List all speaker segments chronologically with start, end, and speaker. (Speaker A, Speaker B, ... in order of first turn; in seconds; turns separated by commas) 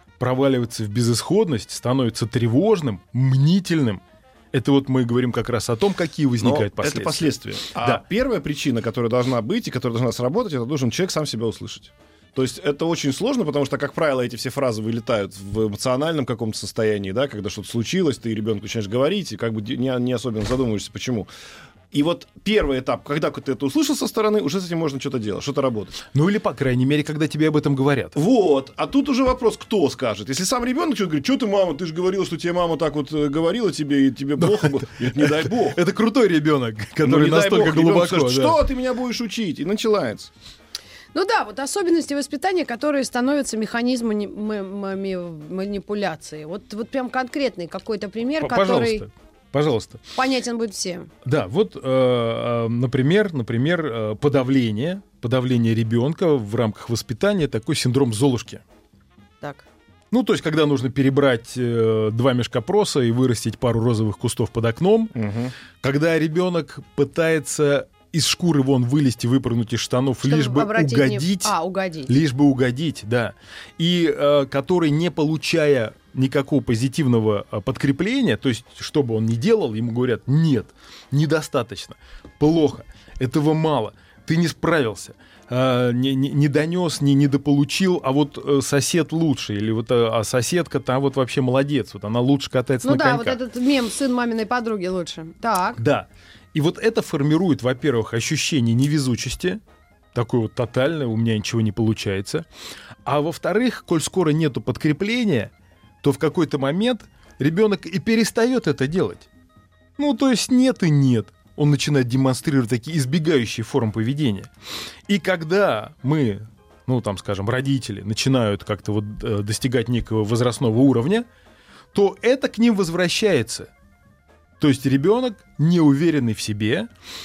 Speaker A: 0.2-8.0, Speaker B: 6.4-21.3, Speaker B: 21.9-26.0, Speaker A: 26.1-28.1, Speaker B: 28.1-35.8, Speaker A: 34.4-38.6, Speaker B: 37.0-40.3, Speaker C: 41.1-49.0, Speaker A: 48.4-50.0, Speaker C: 50.1-51.1, Speaker A: 51.2-58.6, Speaker A: 60.1-65.1, Speaker B: 65.1-65.5, Speaker A: 65.8-71.5, Speaker C: 70.2-72.1, Speaker A: 72.1-93.4, Speaker C: 92.8-95.8, Speaker A: 95.8-99.6, Speaker A: 100.1-102.5, Speaker A: 103.0-109.3, Speaker A: 110.0-114.5, Speaker A: 115.1-121.2, Speaker A: 121.9-123.7, Speaker A: 124.6-126.9